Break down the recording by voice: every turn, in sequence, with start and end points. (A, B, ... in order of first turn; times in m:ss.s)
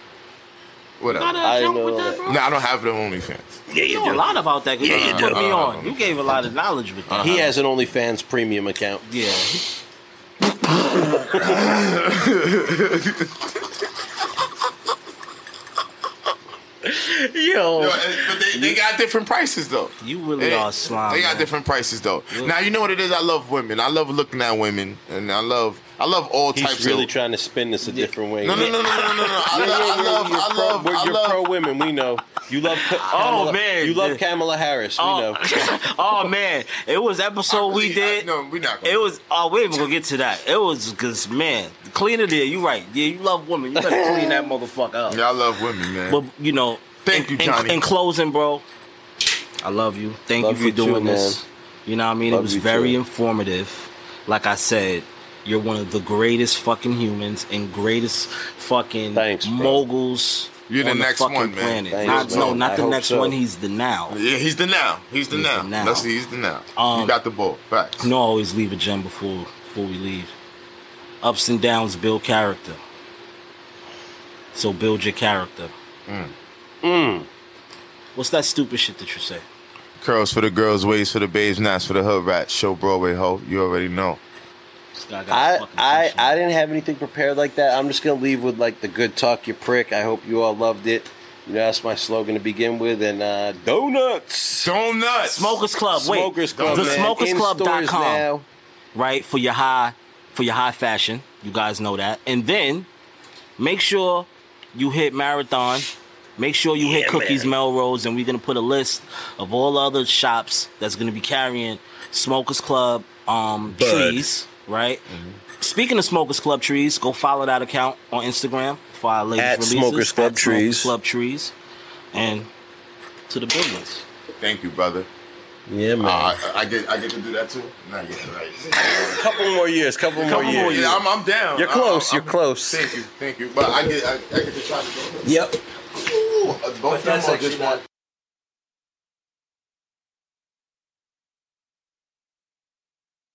0:01.0-0:01.4 A
0:01.1-0:02.4 B
0:01.4-0:02.2 C
0:02.3-0:03.6 A
0:03.7-0:05.4 C
0:03.9-0:07.4 B
0:04.8-0:06.2 A
0:07.1-0:07.5 A
0:07.2-0:09.0 C
0:09.1-0:09.7 B
0:10.7-0:11.4 B
0:11.3-0:11.6 C
0:11.4-0:13.3 A
0:16.8-0:18.8 B
0:17.8-0:27.1 A
0:20.0-0:21.5 B
0:26.5-0:35.4 C
0:27.8-0:28.7 B
0:28.4-0:31.5 A
0:32.8-0:34.2 B
0:35.0-0:38.3 B
0:37.5-0:39.1 A
0:38.8-0:45.2 B
0:43.9-0:44.3 A
0:45.1-0:46.2 A
0:46.1-0:48.6 B
0:47.0-0:47.8 A
0:49.6-1:04.2 B
0:50.4-0:51.4 C
0:52.3-0:53.0 C
0:59.1-0:59.8 C
1:00.7-1:02.6 A
1:01.9-1:03.4 C
1:04.1-1:08.0 A
1:05.3-1:06.1 B
1:06.8-1:07.2 B
1:08.0-1:10.3 B
1:11.2-1:12.8 B
1:14.5-1:15.7 B
1:16.1-1:16.3 A
1:16.8-1:17.3 C
1:18.2-1:19.4 B
1:20.0-1:24.2 A
1:24.9-1:26.4 B
1:25.3-1:34.7 C
1:34.6-1:35.6 A
1:35.3-1:38.3 B
1:35.9-1:38.4 C
1:36.5-1:37.1 A
1:38.9-1:42.9 B
1:43.6-1:55.0 B
1:46.8-1:47.5 C
1:53.7-1:54.2 C
1:55.6-2:01.5 B
1:59.4-2:00.9 C
2:02.1-2:02.5 B
2:03.3-2:04.1 B
2:04.4-2:05.1 A
2:05.7-2:06.4 C
2:06.0-2:09.3 A
2:08.8-2:11.0 C
2:10.2-2:11.0 B
2:10.2-2:15.3 A
2:11.6-2:12.9 C
2:15.2-2:15.6 C
2:16.0-2:17.8 A
2:16.9-2:17.8 C